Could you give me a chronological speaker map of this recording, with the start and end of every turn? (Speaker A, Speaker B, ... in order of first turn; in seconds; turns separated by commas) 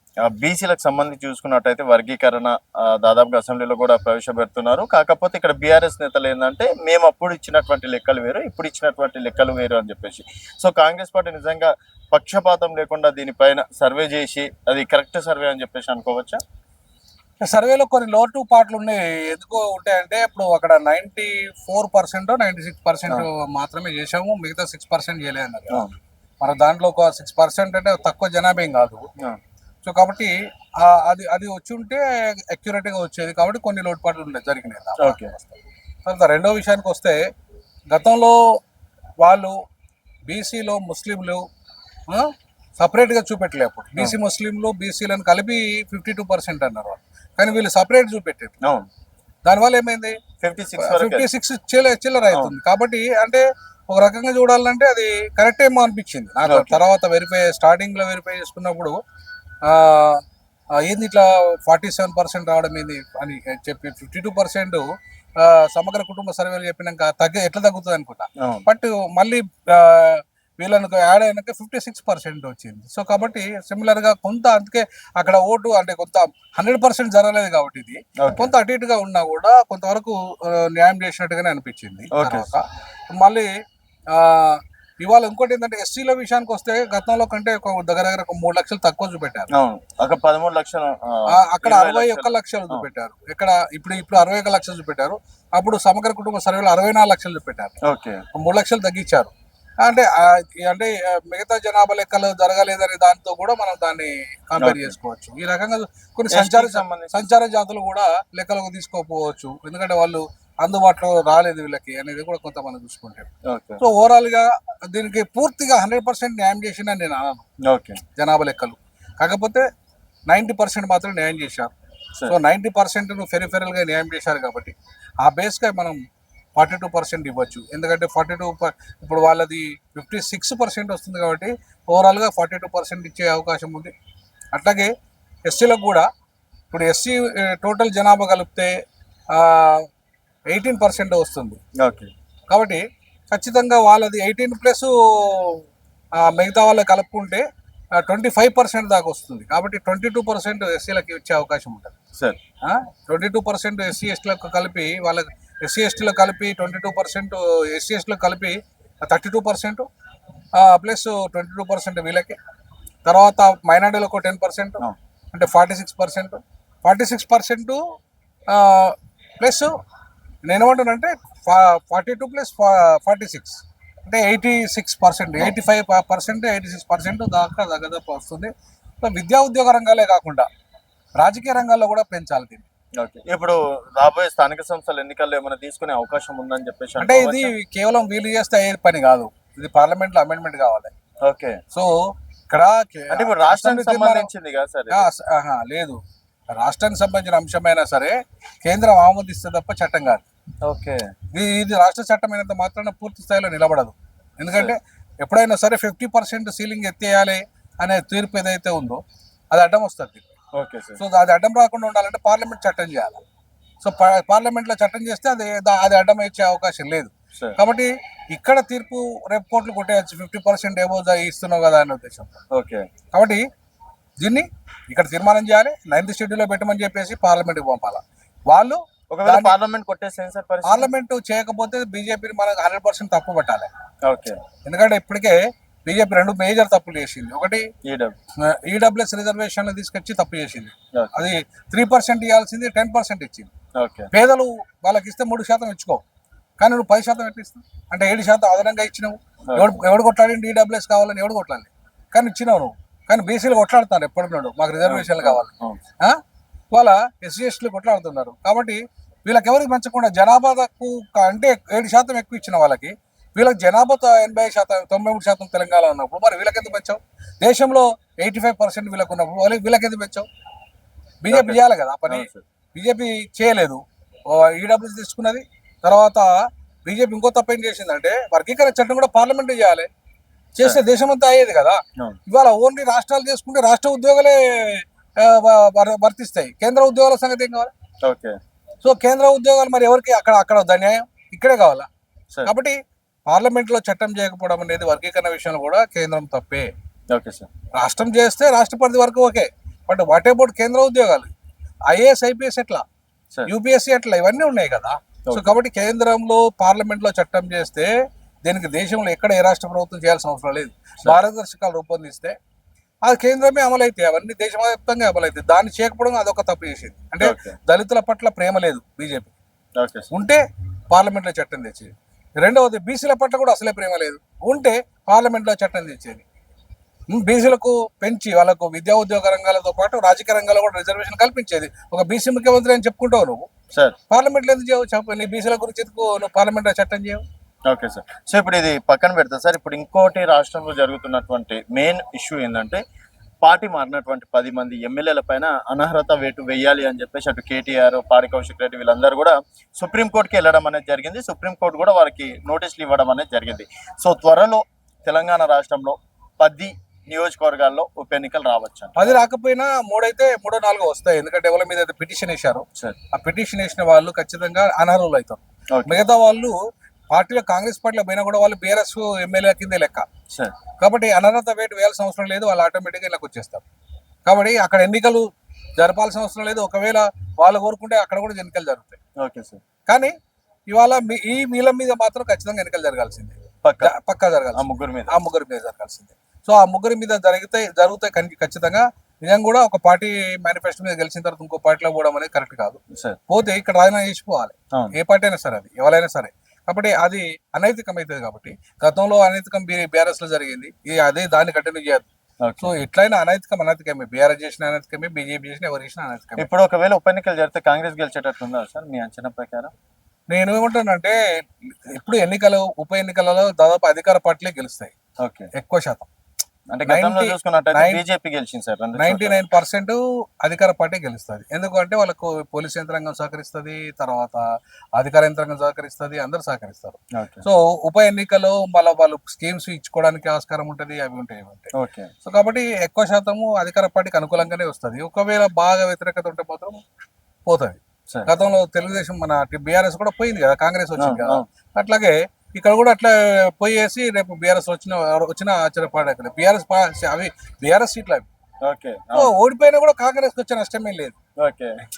Speaker A: 0.3-16.4, Speaker B: 17.4-25.9, Speaker A: 25.7-26.0, Speaker B: 26.4-29.0, Speaker B: 29.8-37.2, Speaker A: 35.0-35.3, Speaker B: 37.9-38.4, Speaker B: 39.2-39.5, Speaker B: 40.3-41.4, Speaker B: 42.8-48.5, Speaker B: 49.5-50.1, Speaker A: 50.4-51.3, Speaker B: 50.8-59.0, Speaker A: 56.5-56.8, Speaker B: 59.7-60.2, Speaker B: 60.8-64.8, Speaker B: 65.4-83.5, Speaker A: 68.4-68.7, Speaker A: 78.2-78.5, Speaker A: 82.1-82.5, Speaker B: 84.1-89.5, Speaker A: 89.5-92.9, Speaker B: 91.3-97.8, Speaker A: 97.9-98.2, Speaker B: 98.3-113.3, Speaker A: 104.6-104.9, Speaker A: 106.3-107.3, Speaker A: 113.5-113.8, Speaker B: 113.8-117.5, Speaker A: 117.7-118.0, Speaker B: 118.2-119.7, Speaker B: 120.3-121.7, Speaker B: 122.3-126.0, Speaker B: 126.6-133.9, Speaker B: 134.5-134.9, Speaker B: 135.5-136.1, Speaker B: 136.7-138.7, Speaker B: 139.3-139.8, Speaker B: 140.5-141.6, Speaker A: 141.8-142.1, Speaker B: 142.5-145.6, Speaker B: 146.2-147.4, Speaker B: 148.0-151.9, Speaker B: 152.6-159.9, Speaker B: 160.6-162.4, Speaker B: 163.1-164.8, Speaker B: 165.3-167.8, Speaker B: 168.5-169.7, Speaker B: 170.4-178.5, Speaker B: 179.0-180.5, Speaker B: 181.2-182.7, Speaker A: 183.0-187.5, Speaker B: 187.0-190.9, Speaker A: 191.3-191.6, Speaker B: 192.5-194.3, Speaker A: 193.1-195.1, Speaker B: 194.9-196.0, Speaker B: 196.5-200.2, Speaker A: 200.7-201.1, Speaker B: 201.3-209.0, Speaker B: 209.5-210.2, Speaker A: 210.6-211.0, Speaker B: 211.0-213.2, Speaker B: 213.8-222.4, Speaker A: 222.5-222.9, Speaker B: 223.1-223.4, Speaker B: 224.2-229.6, Speaker A: 229.1-230.9, Speaker B: 230.7-233.7, Speaker A: 234.1-234.4, Speaker B: 234.7-237.6, Speaker A: 237.8-238.2, Speaker B: 238.4-243.5, Speaker A: 240.9-241.3, Speaker A: 243.8-244.1, Speaker B: 244.1-246.0, Speaker B: 246.6-256.2, Speaker A: 249.5-249.8, Speaker A: 254.8-255.8, Speaker B: 256.7-270.3, Speaker B: 271.2-279.9, Speaker A: 271.3-272.5, Speaker B: 280.6-287.7, Speaker A: 288.1-288.4, Speaker B: 288.8-291.9, Speaker B: 292.5-292.8, Speaker B: 293.3-296.7, Speaker A: 297.1-297.5, Speaker B: 297.8-301.3, Speaker B: 301.9-302.8, Speaker B: 303.5-307.9, Speaker A: 305.3-305.6, Speaker B: 308.4-312.4, Speaker B: 313.1-319.3, Speaker A: 317.2-317.6, Speaker A: 319.8-320.1, Speaker B: 320.1-326.2, Speaker B: 327.1-333.5, Speaker B: 334.1-337.2, Speaker A: 337.7-342.8, Speaker A: 343.4-359.1, Speaker B: 359.0-366.6, Speaker A: 365.7-366.0, Speaker B: 367.1-370.1, Speaker B: 370.8-373.6, Speaker B: 374.3-375.2, Speaker B: 375.8-379.0, Speaker A: 379.2-379.6, Speaker B: 380.7-402.1, Speaker A: 383.6-383.9, Speaker A: 384.6-385.2, Speaker A: 402.4-402.7, Speaker B: 402.6-406.5, Speaker A: 406.4-409.7, Speaker B: 410.3-411.2, Speaker B: 411.9-414.9, Speaker A: 415.2-415.5, Speaker B: 415.6-416.1, Speaker A: 416.7-419.4, Speaker B: 416.9-418.0, Speaker B: 419.0-424.4, Speaker B: 425.0-431.7, Speaker A: 427.2-427.4, Speaker A: 431.7-432.1, Speaker B: 432.2-436.8, Speaker B: 437.5-448.3, Speaker A: 441.0-441.5, Speaker A: 448.6-449.4, Speaker B: 449.1-451.1, Speaker A: 451.4-451.8